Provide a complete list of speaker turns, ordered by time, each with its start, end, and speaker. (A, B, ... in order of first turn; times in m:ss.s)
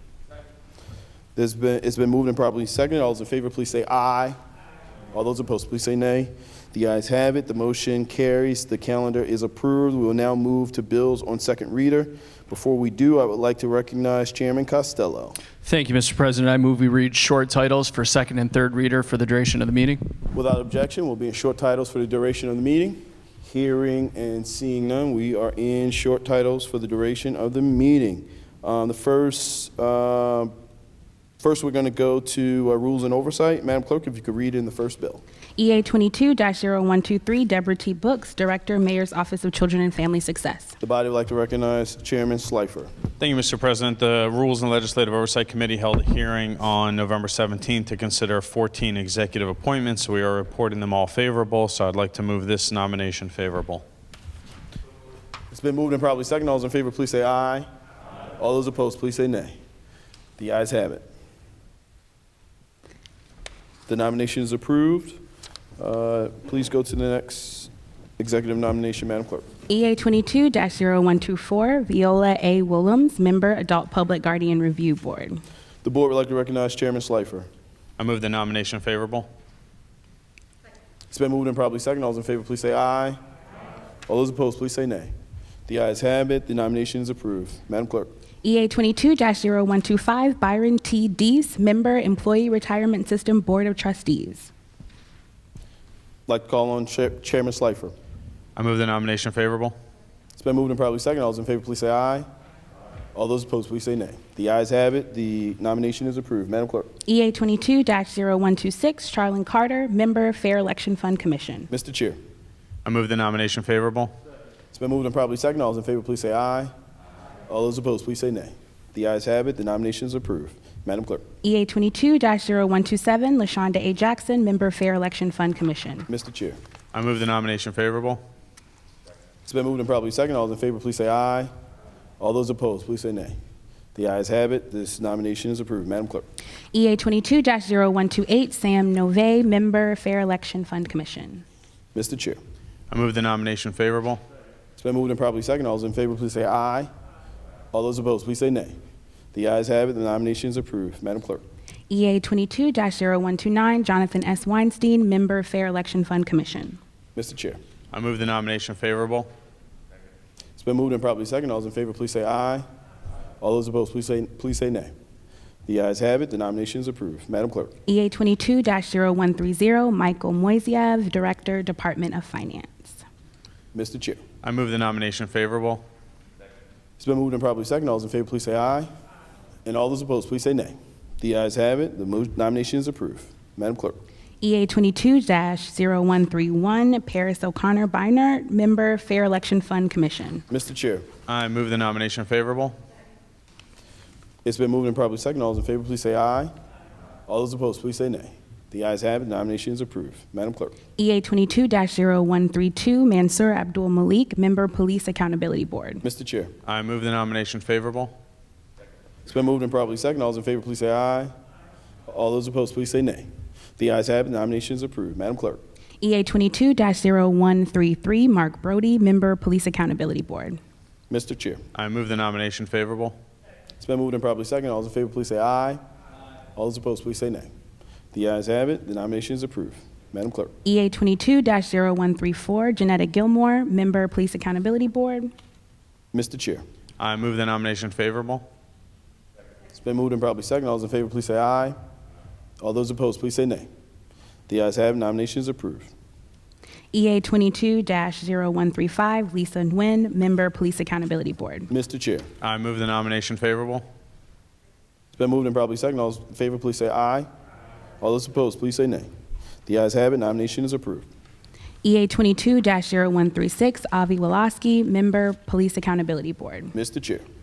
0:01.4-0:04.4 A
0:05.1-0:15.4 A
0:15.6-0:20.0 B
0:20.3-0:30.5 A
0:31.4-0:35.2 A
0:35.6-0:40.7 C
0:40.8-0:42.9 A
0:43.2-0:53.8 D
0:55.5-0:57.7 A
0:58.4-0:59.6 A
1:00.4-1:01.0 A
1:03.9-1:05.2 A
1:05.8-1:09.4 A
1:09.7-1:15.4 C
1:15.8-1:17.5 A
1:18.0-1:19.3 D
1:21.1-1:23.2 A
1:24.1-1:25.1 A
1:25.7-1:28.1 A
1:28.4-1:34.5 C
1:36.3-1:37.9 A
1:38.6-1:39.8 D
1:40.4-1:42.3 A
1:43.1-1:46.9 A
1:47.0-1:51.7 C
1:51.7-1:52.2 A
1:52.8-1:54.1 D
1:54.7-1:56.7 A
1:57.5-2:01.2 A
2:01.4-2:06.1 C
2:06.1-2:06.6 A
2:06.9-2:08.2 D
2:09.4-2:11.5 A
2:12.2-2:13.4 A
2:13.9-2:16.2 A
2:16.7-2:21.4 C
2:21.9-2:22.4 A
2:22.9-2:24.2 D
2:24.8-2:26.9 A
2:27.7-2:28.8 A
2:29.3-2:31.4 A
2:31.9-2:36.8 C
2:37.1-2:37.6 A
2:37.9-2:39.3 D
2:40.6-2:42.6 A
2:43.4-2:44.9 A
2:45.6-2:47.7 A
2:47.9-2:53.0 C
2:53.7-2:54.2 A
2:54.4-2:55.8 D
2:57.0-2:58.9 A
2:59.6-3:04.0 A
3:04.4-3:10.4 C
3:10.5-3:11.0 A
3:11.3-3:12.8 D
3:14.4-3:16.5 A
3:17.3-3:20.8 A
3:21.0-3:26.0 C
3:26.0-3:26.5 A
3:26.6-3:28.1 D
3:29.2-3:31.3 A
3:32.1-3:35.6 A
3:36.0-3:40.6 C
3:41.1-3:41.6 A
3:41.7-3:43.2 D
3:43.8-3:45.8 A
3:46.5-3:47.5 A
3:48.1-3:50.5 A
3:50.6-3:55.3 C
3:56.1-3:56.6 A
3:57.0-3:58.4 D
3:59.7-4:01.8 A
4:02.6-4:03.7 A
4:04.5-4:05.9 A
4:06.9-4:11.7 C
4:11.7-4:12.3 A
4:12.4-4:13.8 D
4:15.1-4:17.3 A
4:18.0-4:19.1 A
4:19.6-4:21.1 A
4:21.8-4:26.7 C
4:26.7-4:27.2 A